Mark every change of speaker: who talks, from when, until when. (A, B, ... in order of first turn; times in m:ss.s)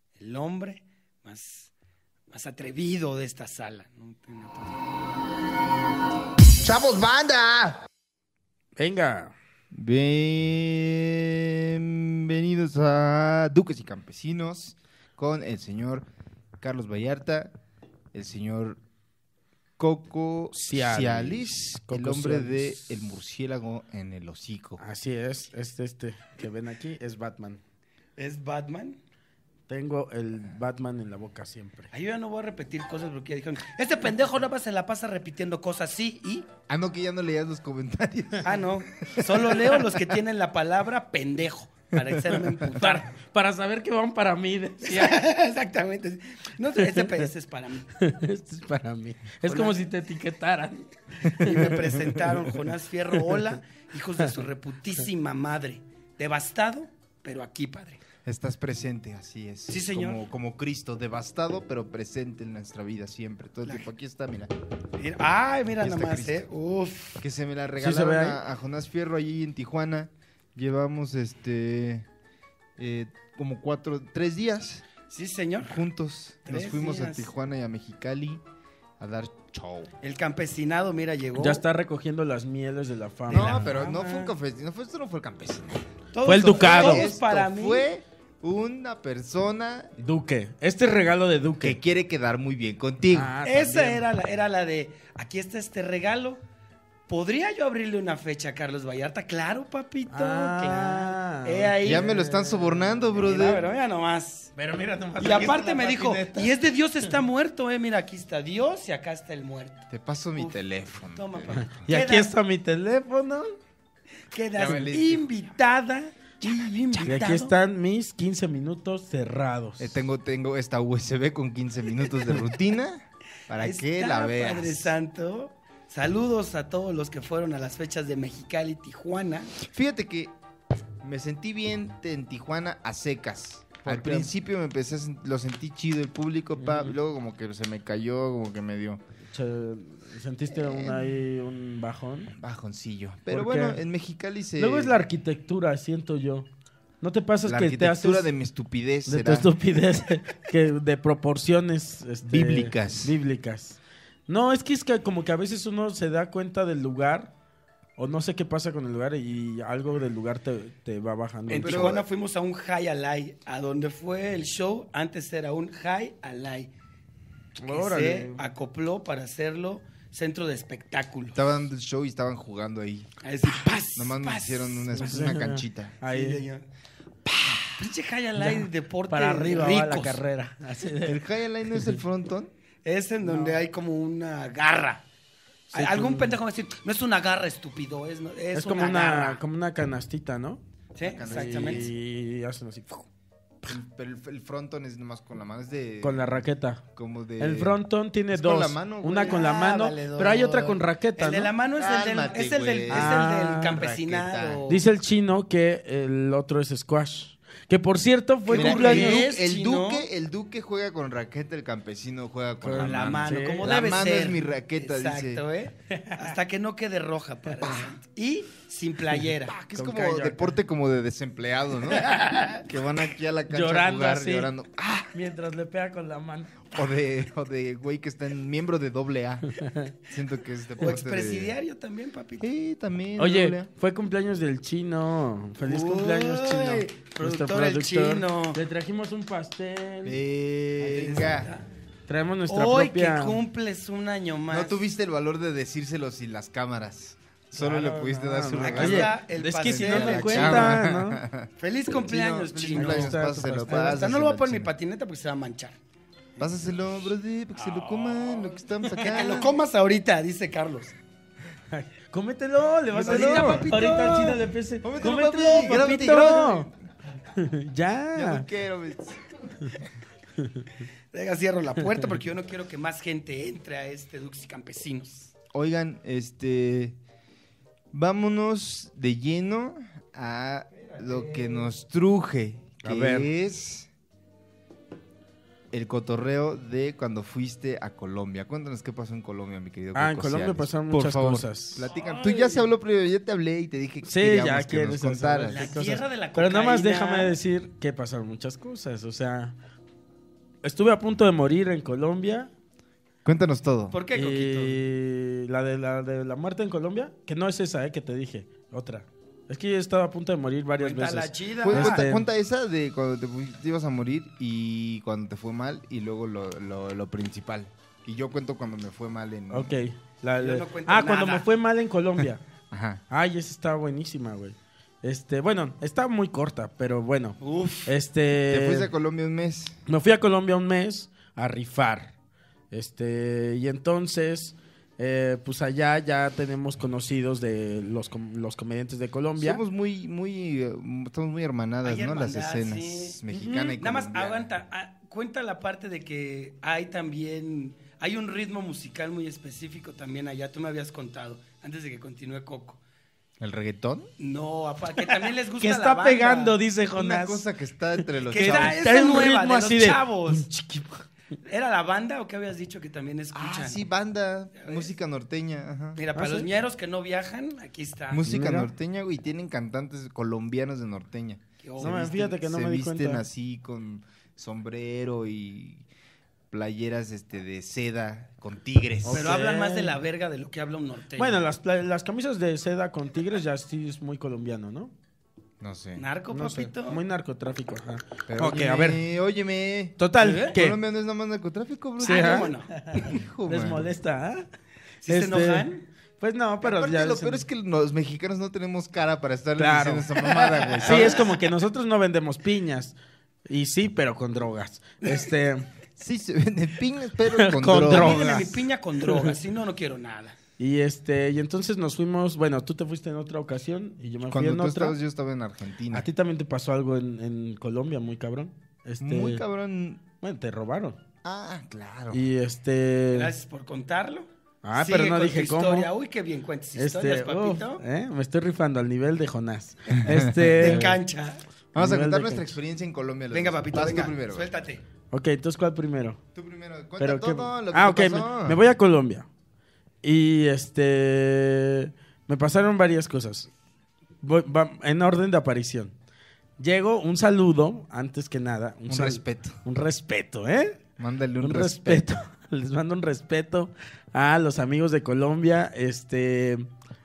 0:00.2-0:01.7 A
0:02.3-0:04.8 A
0:06.6-0:07.8 B
0:08.8-0:09.3 C
0:09.7-0:16.1 B
0:16.6-0:17.5 B
0:18.1-0:18.8 B
0:19.8-0:24.8 B
0:20.5-0:22.8 C
0:24.8-0:27.6 C
0:28.2-0:29.0 A
0:29.7-0:31.9 C
0:31.9-0:36.5 A
0:36.7-0:40.0 B
0:38.4-0:43.1 A
0:42.0-0:42.2 B
0:42.8-0:45.2 C
0:44.8-0:47.9 A
0:46.8-0:47.3 C
0:48.0-0:52.5 C
0:49.4-0:49.8 A
0:51.3-0:58.0 A
0:58.2-1:04.5 B
0:59.7-1:00.2 A
1:05.0-1:07.2 A
1:05.8-1:06.4 B
1:07.2-1:12.0 B
1:07.8-1:08.4 C
1:12.8-1:14.8 B
1:15.1-1:15.8 A
1:15.6-1:18.4 B
1:16.4-1:17.3 A
1:19.0-1:19.9 B
1:20.0-1:21.6 A
1:21.3-1:23.7 C
1:23.3-1:25.9 B
1:23.3-1:24.3 A
1:26.1-1:27.9 A
1:26.2-1:27.1 C
1:26.5-1:29.9 B
1:30.0-1:31.8 C
1:31.6-1:33.3 B
1:33.1-1:34.0 C
1:33.4-1:36.4 A
1:37.1-1:42.4 A
1:40.1-1:43.0 C
1:41.8-1:43.6 B
1:43.1-1:44.5 A
1:44.6-1:47.1 C
1:45.2-1:50.6 A
1:49.9-1:51.9 B
1:51.1-1:52.3 A
1:51.8-1:53.5 C
1:54.3-1:57.5 A
1:54.6-1:55.2 B
1:57.0-2:00.0 C
1:59.8-2:04.9 B
2:03.5-2:09.5 A
2:09.6-2:10.3 B
2:11.0-2:19.0 B
2:13.8-2:14.3 C
2:16.6-2:16.9 C
2:19.3-2:22.3 C
2:20.5-2:21.0 B
2:22.3-2:25.0 B
2:23.3-2:23.8 C
2:24.6-2:26.5 C
2:27.0-2:28.3 C
2:27.4-2:29.5 B
2:29.1-2:37.3 C
2:32.3-2:33.1 B
2:38.0-2:42.0 C
2:41.5-2:46.7 A
2:41.6-2:42.0 B
2:47.6-2:51.4 A
2:47.6-2:48.4 C
2:51.3-2:53.1 B
2:53.2-2:55.2 A
2:54.0-2:56.0 B
2:54.9-2:56.4 C
2:56.1-2:56.6 A
2:57.2-2:57.8 B
2:57.8-3:00.2 A
2:58.4-3:01.2 C
3:01.0-3:02.5 B
3:02.8-3:05.0 A
3:03.2-3:03.6 C
3:05.7-3:06.4 C
3:05.7-3:09.4 A
3:08.5-3:10.6 C
3:10.9-3:11.9 A
3:11.0-3:11.9 B
3:11.2-3:13.1 C
3:13.6-3:16.4 B
3:16.0-3:16.8 C
3:16.9-3:17.8 B
3:17.4-3:21.5 C
3:18.3-3:19.4 B
3:19.1-3:24.8 A
3:21.8-3:24.7 B
3:22.9-3:23.8 C
3:24.7-3:29.3 C
3:28.4-3:30.1 A
3:28.5-3:35.4 B
3:32.6-3:33.7 C
3:32.8-3:39.6 A
3:35.9-3:36.3 C
3:39.5-3:45.1 B
3:39.7-3:40.5 C
3:41.9-3:42.6 A
3:43.5-3:44.5 C
3:45.1-3:46.7 C
3:46.7-3:49.5 B
3:49.5-3:49.9 C
3:50.1-3:51.6 B
3:50.8-3:52.5 A
3:52.4-3:53.7 B
3:53.2-4:00.2 C
3:55.6-3:58.6 A
4:00.0-4:01.5 B
4:00.8-4:01.7 A
4:02.1-4:03.4 C
4:02.5-4:04.8 A
4:04.5-4:09.1 B
4:07.6-4:11.2 C
4:08.6-4:10.8 A
4:09.7-4:14.7 B
4:11.6-4:15.8 A
4:12.7-4:14.0 C
4:16.4-4:19.6 B
4:17.5-4:20.9 A
4:21.7-4:26.7 C
4:23.0-4:24.2 A
4:23.0-4:26.8 B
4:27.3-4:28.4 C
4:28.1-4:29.2 B
4:30.4-4:30.6 C
4:31.1-4:35.3 A
4:35.5-4:37.0 B
4:37.9-4:43.9 B
4:40.7-4:41.7 A
4:42.8-4:43.3 C
4:45.7-4:55.7 B
4:49.9-4:51.8 C
4:51.8-4:52.7 A
4:54.0-4:59.5 C
4:55.5-4:57.3 A
5:00.6-5:02.5 C
5:03.2-5:03.9 B
5:03.9-5:04.8 A
5:04.1-5:12.2 C
5:10.8-5:12.0 A
5:11.6-5:19.8 B
5:19.5-5:22.4 C
5:20.4-5:21.5 A
5:22.7-5:23.0 B
5:23.1-5:28.9 C
5:27.4-5:27.9 B
5:28.5-5:29.8 B
5:29.9-5:32.1 C
5:32.7-5:39.6 C
5:39.4-5:44.5 B
5:41.8-5:43.2 A
5:43.3-5:43.8 C
5:43.8-5:52.8 A
5:53.4-5:54.1 B
5:54.2-5:56.5 A
5:55.0-5:57.5 C
5:56.9-5:58.8 B
5:58.0-6:01.0 C
5:58.3-6:00.5 A
6:01.4-6:03.8 A
6:03.3-6:06.0 B
6:04.6-6:04.9 A
6:06.0-6:08.2 A
6:06.1-6:06.5 C
6:08.1-6:15.8 B
6:08.2-6:08.7 C
6:11.6-6:12.4 A
6:11.8-6:13.2 C
6:16.5-6:19.3 B
6:19.0-6:20.0 C
6:19.1-6:21.4 A
6:21.2-6:24.9 C
6:25.6-6:26.0 B
6:26.0-6:27.0 A
6:26.3-6:29.0 C
6:28.3-6:32.5 B
6:30.0-6:30.8 C
6:30.2-6:30.5 A
6:32.0-6:33.1 A
6:32.0-6:34.4 C
6:33.0-6:33.9 B
6:35.0-6:35.8 A
6:35.1-6:35.7 C
6:36.2-6:37.4 C
6:36.6-6:41.3 B
6:39.6-6:40.1 C
6:40.2-6:41.3 A
6:40.8-6:42.9 C
6:43.4-6:45.7 C
6:46.0-6:48.2 B
6:47.3-6:49.4 C
6:47.8-6:50.4 A
6:50.6-6:55.0 C
6:54.2-6:56.1 B
6:55.9-6:59.4 C
6:59.0-7:00.0 B
7:00.2-7:01.0 C
7:01.2-7:02.2 B
7:02.1-7:03.3 C
7:03.1-7:07.8 A
7:04.6-7:05.9 C
7:06.8-7:11.0 C
7:10.0-7:10.8 B
7:10.6-7:11.4 A
7:11.7-7:12.5 C
7:11.7-7:14.5 B
7:13.3-7:14.8 A
7:15.1-7:16.2 C
7:16.3-7:18.6 B
7:17.0-7:19.3 C
7:20.0-7:23.5 C
7:24.2-7:25.9 C
7:26.6-7:30.8 C
7:28.9-7:29.6 B
7:31.0-7:32.0 B
7:31.4-7:36.7 C